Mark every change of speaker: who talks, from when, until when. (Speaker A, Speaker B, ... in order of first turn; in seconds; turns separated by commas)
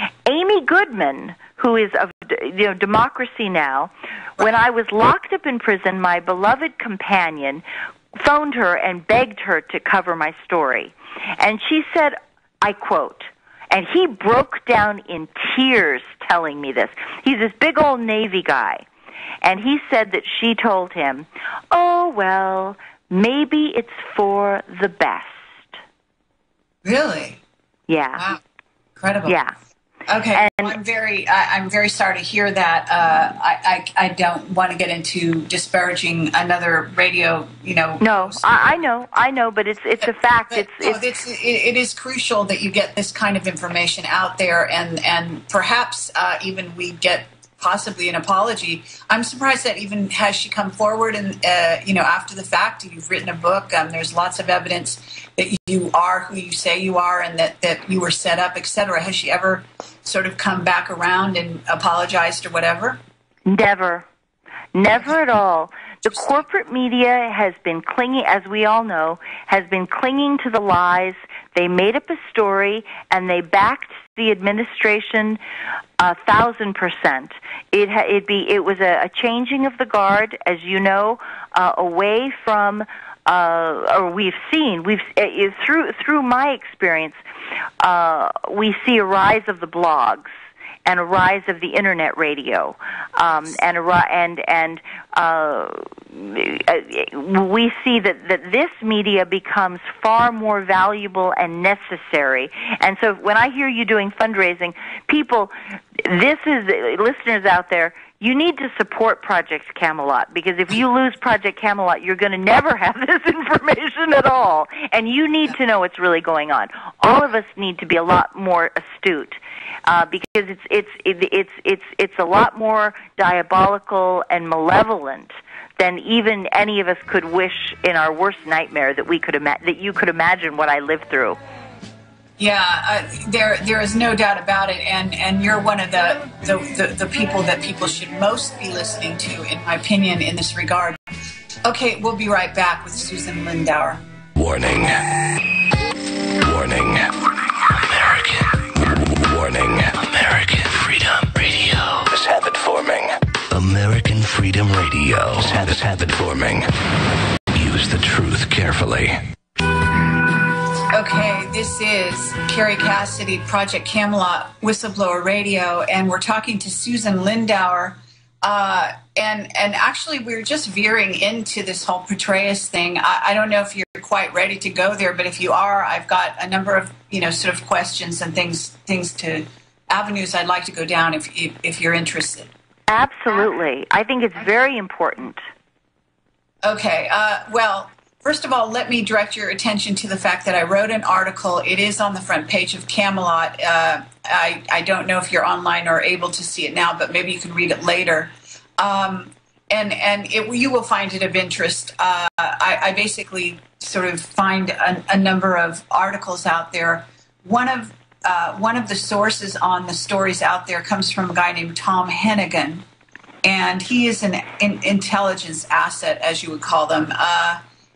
Speaker A: 0.2-7.6, Speaker A: 8.1-18.8, Speaker A: 19.4-25.7, Speaker B: 26.8-27.4, Speaker A: 27.9-28.3, Speaker B: 29.0-29.4, Speaker A: 29.3-29.5, Speaker B: 30.1-38.6, Speaker A: 30.3-30.8, Speaker A: 38.0-41.0, Speaker B: 40.5-63.0, Speaker A: 63.5-64.0, Speaker A: 64.7-75.4, Speaker A: 76.0-87.2, Speaker A: 87.8-90.3, Speaker A: 90.8-131.4, Speaker B: 132.4-141.0, Speaker B: 141.6-144.0, Speaker C: 144.3-145.1, Speaker C: 146.3-156.7, Speaker C: 157.5-159.2, Speaker B: 160.9-182.5, Speaker A: 182.9-185.4, Speaker B: 186.6-212.8, Speaker B: 213.4-217.6